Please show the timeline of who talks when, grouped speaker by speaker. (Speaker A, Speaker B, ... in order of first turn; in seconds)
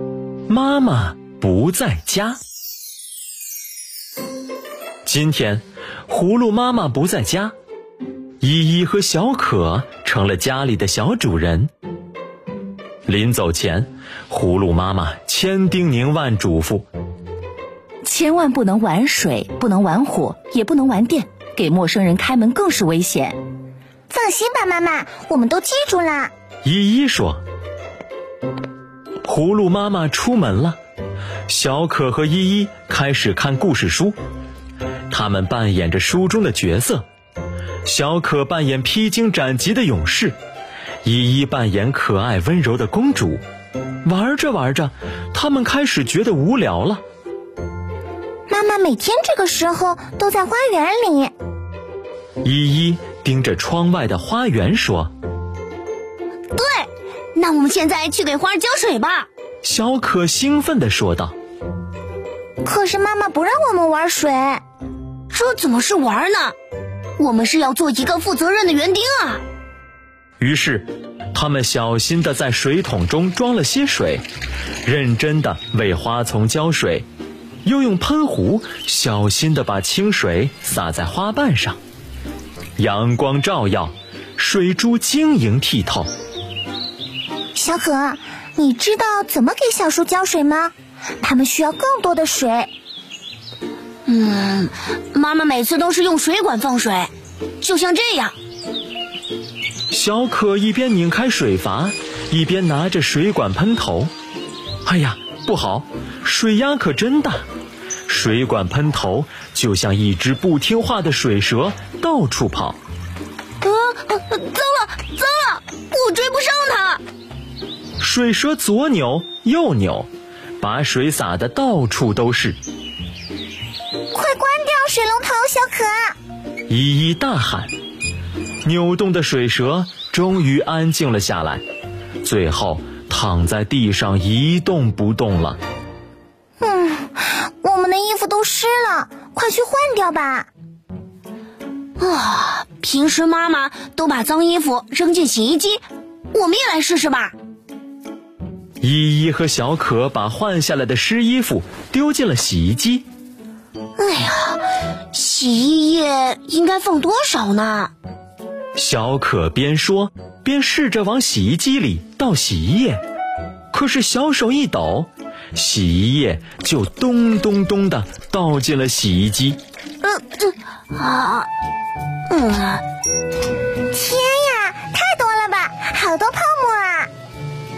Speaker A: 0.5-2.4, 5.0-7.5, 8.4-11.7, 13.1-16.9, 26.6-27.4, 29.2-30.8, 31.5-34.2, 35.1-37.0, 37.8-40.4, 41.0-43.4, 44.0-47.0, 52.4-55.1, 59.6-61.3, 70.4-74.2, 74.8-77.0, 77.6-81.8, 82.8-86.1, 99.9-104.1, 104.8-107.4, 108.1-112.8, 118.0-120.1, 120.6-122.6, 126.7-127.7, 128.6-131.6, 132.2-135.6, 148.8-153.0, 158.8-163.0, 163.7-169.6
Speaker B: 18.0-23.4
Speaker C: 24.1-26.3, 48.5-51.3, 62.6-64.6, 87.5-92.7, 124.1-126.1, 136.6-140.5, 173.9-177.1
Speaker D: 56.5-59.3, 65.3-66.5, 67.2-69.4, 94.0-98.3, 113.6-117.0, 142.0-147.3, 154.0-154.6, 155.1-157.9, 170.0-171.5, 172.3-172.8